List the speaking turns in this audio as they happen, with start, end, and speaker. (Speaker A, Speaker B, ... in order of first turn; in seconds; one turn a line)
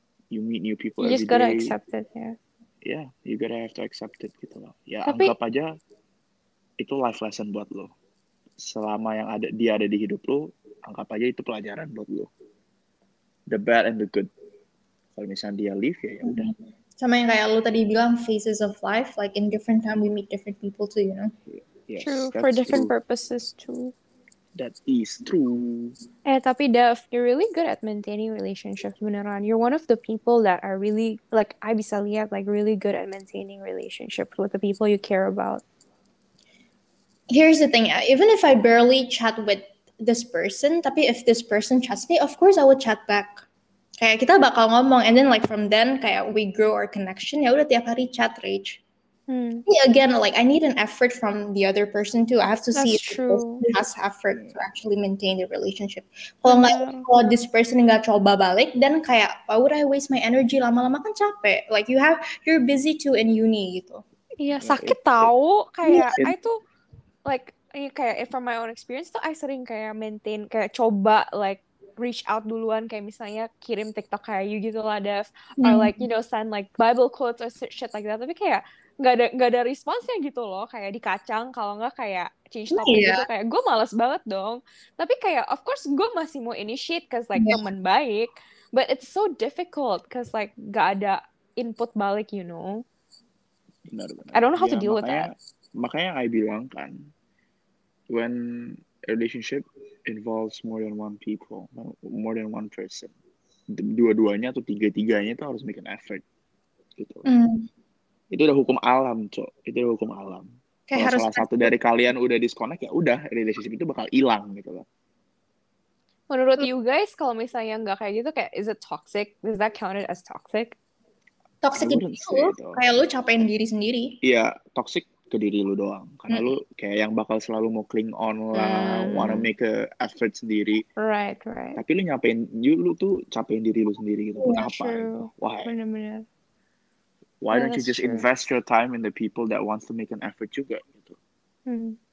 Speaker A: 0.3-1.7
Speaker B: 1.0-2.4
Speaker A: 2.8-5.8
Speaker B: 5.0-5.3
Speaker A: 6.8-7.9
Speaker A: 8.6-12.3
Speaker A: 13.5-14.3
Speaker A: 15.1-16.5
Speaker C: 16.2-21.3
Speaker A: 21.5-22.9
Speaker B: 22.0-23.9
Speaker A: 24.6-25.9
Speaker B: 26.2-35.6
Speaker C: 37.3-43.4
Speaker C: 44.0-48.8
Speaker B: 49.3-49.6
Speaker C: 49.6-64.0
Speaker B: 52.7-53.6
Speaker B: 56.5-57.1
Speaker B: 64.4-66.6
Speaker A: 64.5-65.3
Speaker C: 65.8-66.3
Speaker B: 67.2-92.8
Speaker C: 75.6-76.0
Speaker C: 82.7-83.3
Speaker C: 87.3-87.6
Speaker A: 93.9-97.1
Speaker B: 94.3-95.3
Speaker A: 98.1-103.1
Speaker A: 103.7-106.2
Speaker A: 107.0-107.2
Speaker C: 107.2-107.7
Speaker A: 108.3-114.9
Speaker C: 110.9-111.7
Speaker B: 116.3-120.8
Speaker C: 121.6-124.2
Speaker A: 121.8-122.8
Speaker A: 124.2-130.8
Speaker B: 128.5-129.5
Speaker B: 131.0-131.8
Speaker A: 131.8-135.7
Speaker B: 134.5-136.2
Speaker A: 137.4-141.2
Speaker B: 137.5-138.2
Speaker B: 141.7-142.0